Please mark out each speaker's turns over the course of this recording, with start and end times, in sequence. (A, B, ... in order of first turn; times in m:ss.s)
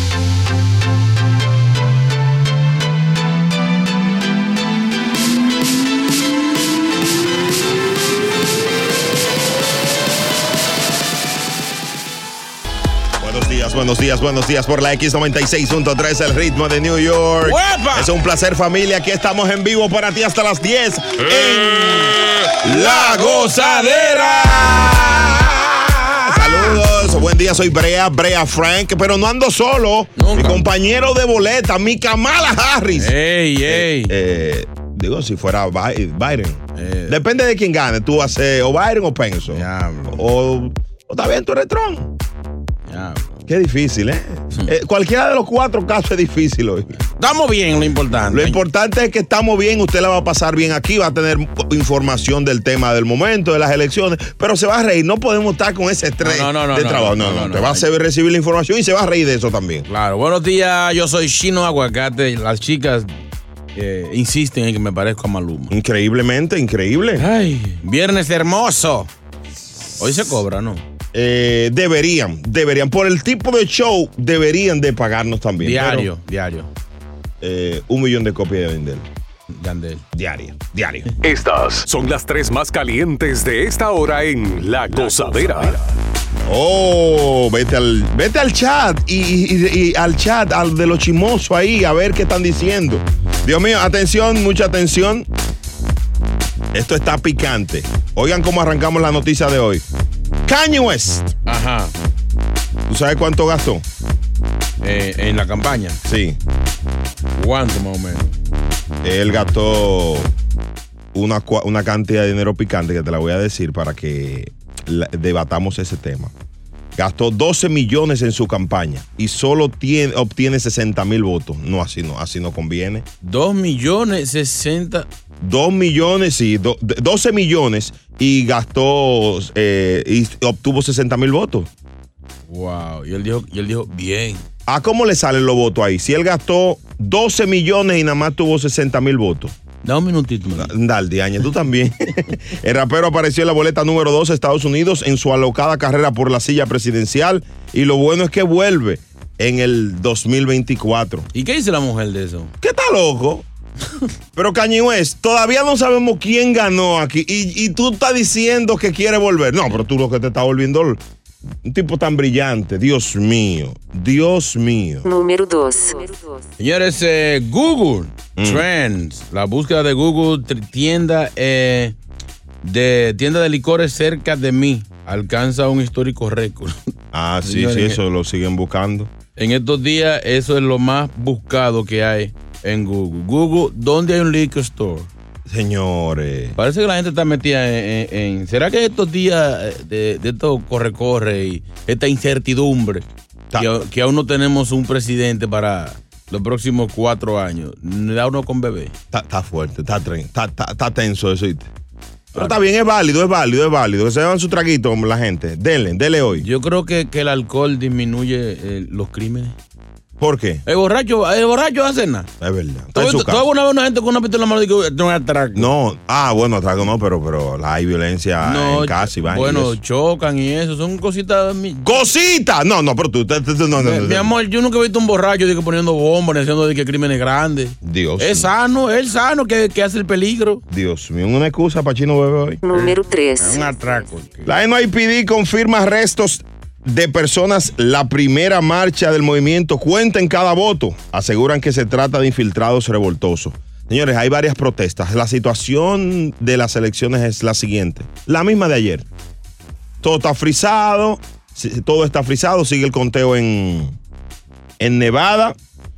0:13.2-0:33.1 A
0:17.5-0:18.1 B
0:21.4-0:24.9 B
0:26.0-0:26.8 B
0:30.2-0:30.6 B
0:33.0-0:34.1 B
0:33.7-0:42.1 A
0:36.8-0:37.2 B
0:39.5-0:40.2 B
0:42.9-0:43.4 B
0:43.5-0:46.9 A
0:46.9-0:48.6 B
0:48.3-0:59.9 A
0:56.2-0:57.9 B
0:59.9-1:03.1 B
1:03.8-1:05.7 B
1:05.7-1:07.3 A
1:07.2-1:09.1 B
1:09.6-1:10.4 A
1:10.0-1:10.8 B
1:11.1-1:16.1 A
1:15.6-1:16.7 B
1:17.4-1:19.1 A
1:19.5-1:20.0 B
1:20.1-1:21.1 A
1:21.2-1:25.8 C
1:26.5-1:35.3 A
1:36.7-1:39.8 A
1:40.5-1:41.4 A
1:41.5-1:41.9 B
1:42.9-1:43.8 A
1:44.8-1:46.0 B
1:46.0-1:46.4 A
1:47.4-1:48.4 B
1:49.0-1:50.3 A
1:51.1-1:56.3 A
1:57.0-2:03.1 A
2:03.2-2:05.1 B
2:05.4-2:11.7 A
2:12.5-2:14.4 B
2:14.7-2:19.5 A
2:19.8-2:20.7 B
2:20.6-2:31.3 A
2:31.3-2:32.5 B
2:32.6-2:33.5 A
2:34.4-2:41.0 A
2:41.6-2:45.1 A
2:45.1-2:46.5 D
2:46.6-2:52.0 B
2:48.4-2:48.6 A
2:52.6-2:56.8 B
2:57.1-2:59.1 A
2:57.4-2:58.0 B
2:59.4-3:05.1 B
3:05.5-3:06.6 A
3:06.6-3:13.0 B
3:13.6-3:18.9 B
3:19.1-3:21.7 A
3:22.3-3:26.5 A
3:26.4-3:29.6 B
3:30.2-3:30.6 A
3:30.7-3:32.3 B
3:32.4-3:33.5 A
3:33.0-3:35.7 B
3:35.6-3:39.8 A
3:38.4-3:41.9 B
3:41.8-3:44.3 A
3:43.8-3:50.6 B
3:47.8-3:48.5 A
3:50.7-3:52.6 A
3:52.6-3:54.1 D
3:52.7-3:54.5 B
3:54.4-4:09.1 A
4:10.0-4:14.0 A
4:14.8-4:15.6 A